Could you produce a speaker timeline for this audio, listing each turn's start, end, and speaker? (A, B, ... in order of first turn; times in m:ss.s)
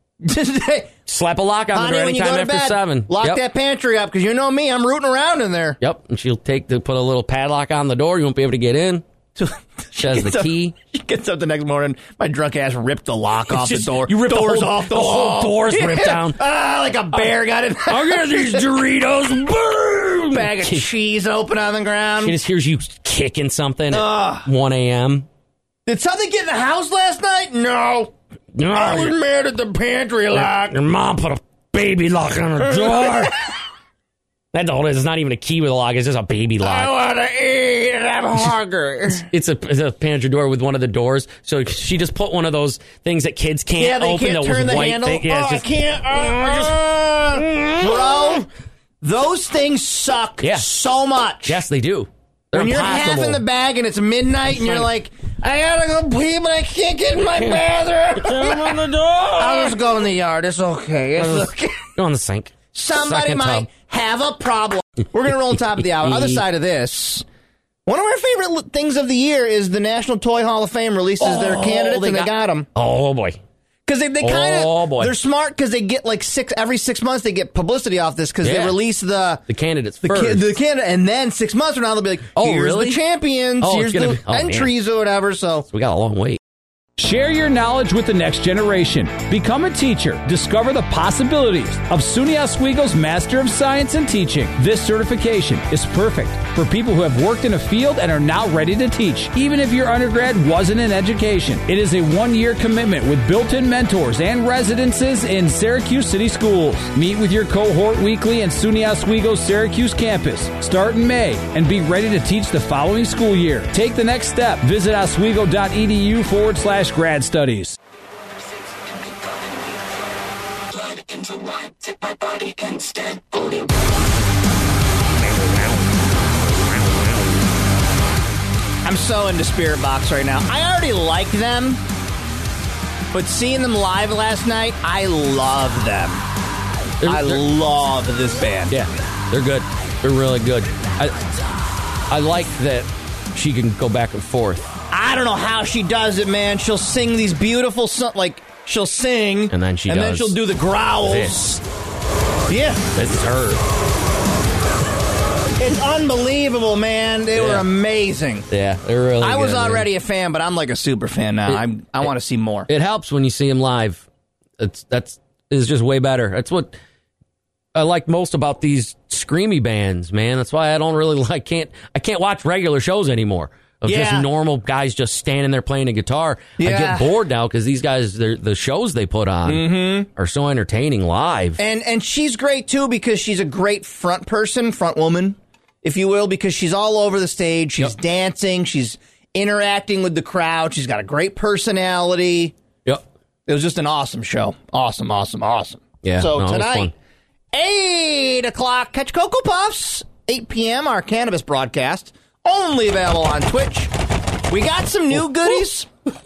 0:00.2-0:00.9 A
0:01.0-0:03.4 B
0:01.7-0:05.8 A
0:05.8-0:09.0 B
0:09.4-0:18.7 A
0:10.0-0:10.7 B
0:13.5-0:16.4 B
0:17.8-0:20.9 B
0:20.2-0:22.4 A
0:22.2-0:25.3 B
0:23.9-0:24.5 A
0:25.8-0:28.1 A
0:28.5-0:29.2 B
0:28.7-0:30.8 A
0:30.3-0:33.4 B
0:32.6-0:33.4 A
0:34.5-0:36.9 B
0:36.6-0:39.3 A
0:39.3-0:46.8 B
0:43.8-0:48.5 A
0:47.3-0:48.4 B
0:49.0-0:51.6 A
0:50.4-0:50.7 B
0:51.4-0:53.4 B
0:52.5-1:01.9 A
0:58.1-0:59.8 B
1:01.2-1:03.7 B
1:02.7-1:07.2 A
1:05.8-1:06.4 B
1:07.8-1:12.7 A
1:11.2-1:13.4 B
1:13.8-1:19.4 A
1:14.2-1:15.1 B
1:18.4-1:18.8 B
1:19.5-1:20.6 B
1:20.0-1:25.6 A
1:22.3-1:23.0 B
1:23.6-1:24.7 B
1:25.7-1:26.4 B
1:27.0-1:57.8 C
2:01.0-2:03.6 A
2:08.8-2:11.8 A
2:13.1-2:16.2 A
2:17.0-2:17.4 B
2:17.0-2:18.7 A
2:18.7-2:21.2 B
2:22.1-2:24.8 B
2:24.9-2:31.6 A
2:29.5-2:30.4 B
2:31.0-2:31.6 B
2:32.5-2:32.8 A
2:32.9-2:33.6 B
2:35.6-2:38.5 A
2:37.3-2:37.7 B
2:38.5-2:39.9 B
2:39.2-2:42.7 A
2:41.5-2:42.1 B
2:42.7-2:44.1 B
2:44.6-2:46.8 B
2:47.7-3:01.6 B
2:53.8-2:54.3 A
2:56.6-2:57.1 A
2:59.4-3:00.1 A
3:01.6-3:12.5 A
3:13.5-3:16.9 A
3:16.0-3:16.9 B
3:17.5-3:23.9 A
3:24.5-3:25.9 A